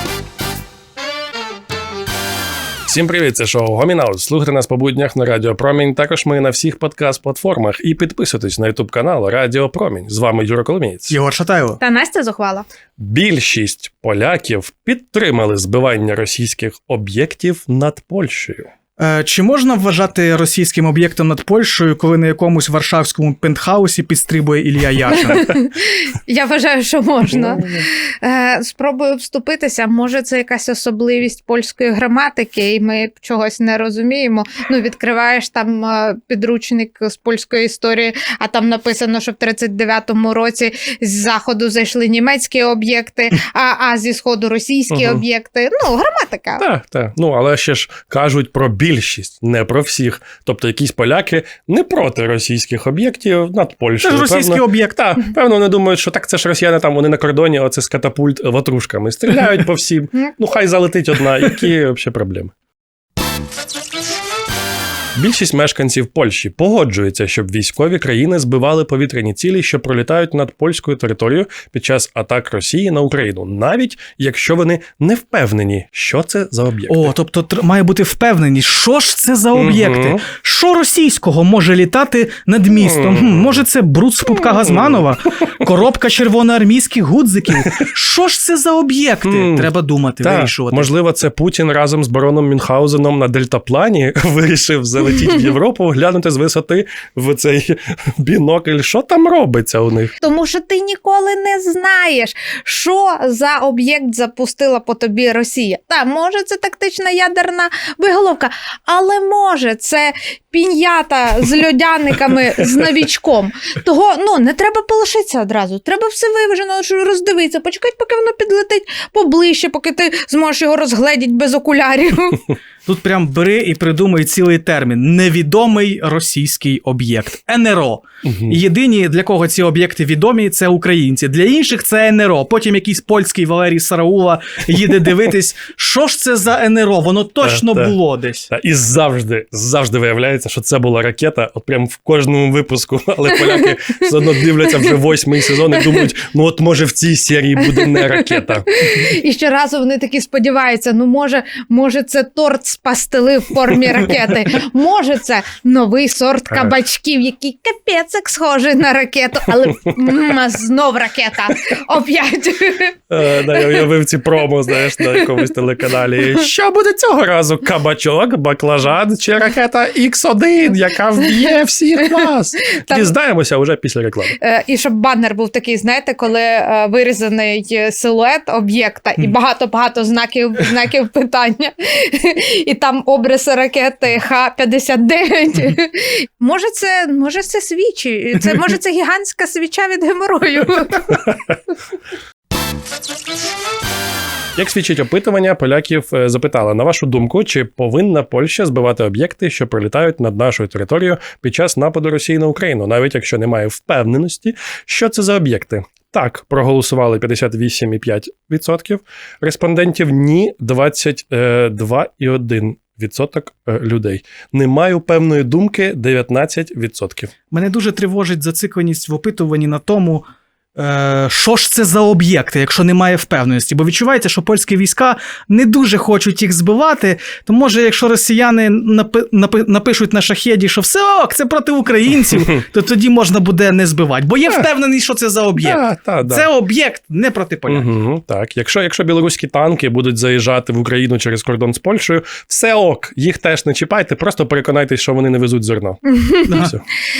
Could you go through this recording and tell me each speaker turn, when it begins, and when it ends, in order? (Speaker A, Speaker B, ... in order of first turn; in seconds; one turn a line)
Speaker A: 2.9-11.2
Speaker B: 11.1-11.8
Speaker C: 11.8-12.7
Speaker A: 13.0-18.7
Speaker B: 19.0-25.4
Speaker C: 25.1-46.6
Speaker A: 27.3-27.9
Speaker A: 44.9-45.2
Speaker A: 46.6-62.5
Speaker B: 54.0-55.0
Speaker A: 65.2-77.1
Speaker B: 76.9-90.9
Speaker A: 79.5-80.2
Speaker A: 89.2-89.7
Speaker A: 90.2-100.1
Speaker C: 100.2-122.5
Speaker B: 122.8-138.5
Speaker A: 128.2-128.6
Speaker A: 137.4-137.9
Speaker A: 138.5-148.7
Speaker C: 145.8-146.1
Speaker C: 147.6-163.0
Speaker A: 163.1-174.3
Speaker C: 163.6-163.8
Speaker C: 172.0-173.1
Speaker C: 174.4-191.3
Speaker A: 194.6-217.3
Speaker B: 217.5-220.2
Speaker B: 220.8-237.9
Speaker A: 235.6-236.5
Speaker A: 237.7-246.8
Speaker C: 246.1-246.6
Speaker B: 246.5-246.7